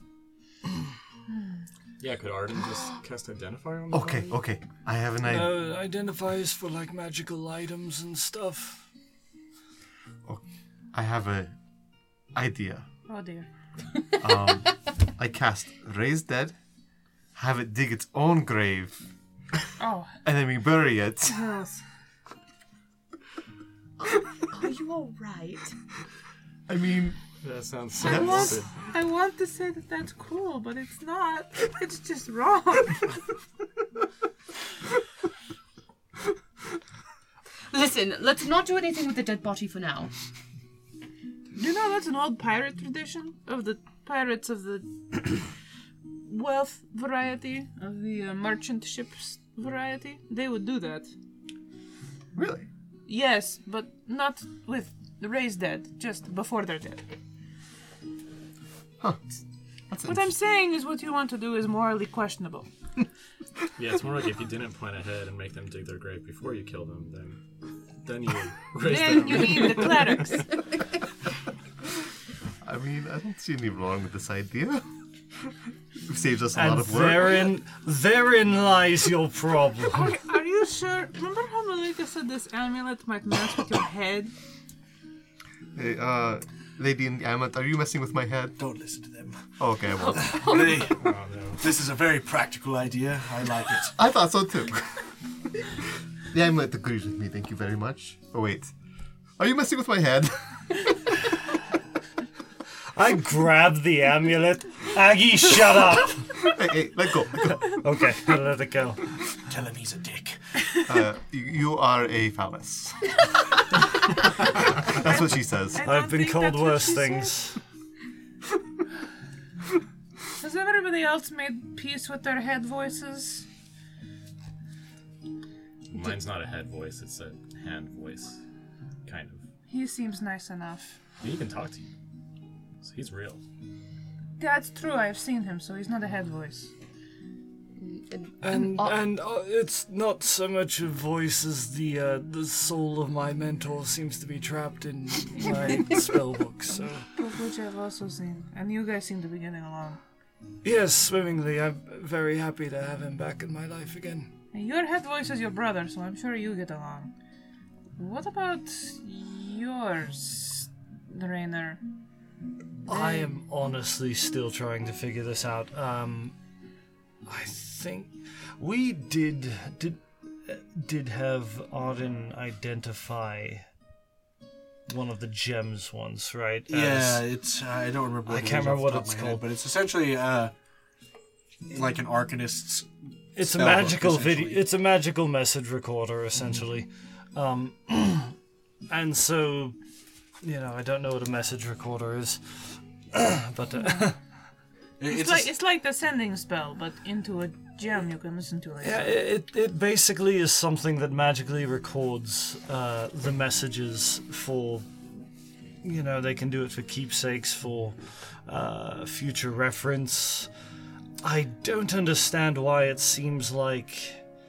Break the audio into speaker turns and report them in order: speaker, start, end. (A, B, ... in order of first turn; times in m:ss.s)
0:02.0-0:04.3 A
0:03.9-0:05.6 B
0:05.2-0:08.9 C
0:10.2-0:11.6 B
0:12.3-0:12.8 B
0:13.1-0:13.5 D
0:14.2-0:16.6 B
0:17.3-0:19.1 B
0:19.8-0:20.2 D
0:20.2-0:21.5 B
0:21.2-0:21.8 D
0:24.0-0:25.8 E
0:26.7-0:27.2 B
0:27.4-0:28.7 A
0:28.0-0:33.2 D
0:28.0-0:28.6 B
0:37.7-0:40.1 E
0:41.5-0:45.5 D
0:46.2-0:51.1 D
0:52.3-0:52.7 B
0:53.0-0:57.0 D
1:00.0-1:02.7 D
1:03.8-1:07.4 A
1:08.0-1:10.5 A
1:08.8-1:10.6 D
1:12.6-1:14.9 B
1:16.0-1:17.4 B
1:16.5-1:20.1 C
1:19.9-1:24.3 D
1:25.7-1:28.6 B
1:28.6-1:29.6 F
1:29.6-1:30.6 B
1:30.2-1:34.0 F
1:31.0-1:31.6 A
1:33.9-1:35.1 B
1:36.3-1:38.7 B
1:39.4-1:40.8 B
1:42.9-1:46.3 C
1:46.4-1:47.7 B
1:47.7-1:49.1 C
1:49.5-1:50.4 F
1:50.8-1:53.1 B
1:54.8-1:55.8 B
1:55.7-1:57.5 D
1:55.8-1:57.6 C
2:00.4-2:03.4 D
2:05.9-2:08.4 A
2:09.0-2:09.4 A
2:09.7-2:11.0 D
2:11.2-2:11.9 A
2:12.8-2:13.4 A
2:14.4-2:16.7 D
2:17.8-2:19.0 E
2:18.4-2:27.1 C
2:25.3-2:26.0 D
2:27.1-2:30.0 D
2:30.6-2:34.3 C
2:34.5-2:37.1 D
2:38.0-2:41.8 D
2:42.8-2:46.3 C
2:42.9-2:43.3 D
2:47.2-2:53.6 C
2:54.9-2:57.2 C
2:56.7-3:00.5 F
2:58.3-2:59.4 C
3:01.7-3:04.6 F
3:03.4-3:08.3 C
3:08.9-3:09.8 C
3:10.4-3:14.2 C
3:15.0-3:15.5 F
3:15.1-3:19.1 D
3:18.8-3:24.9 C
3:25.8-3:30.5 C
3:31.2-3:34.2 C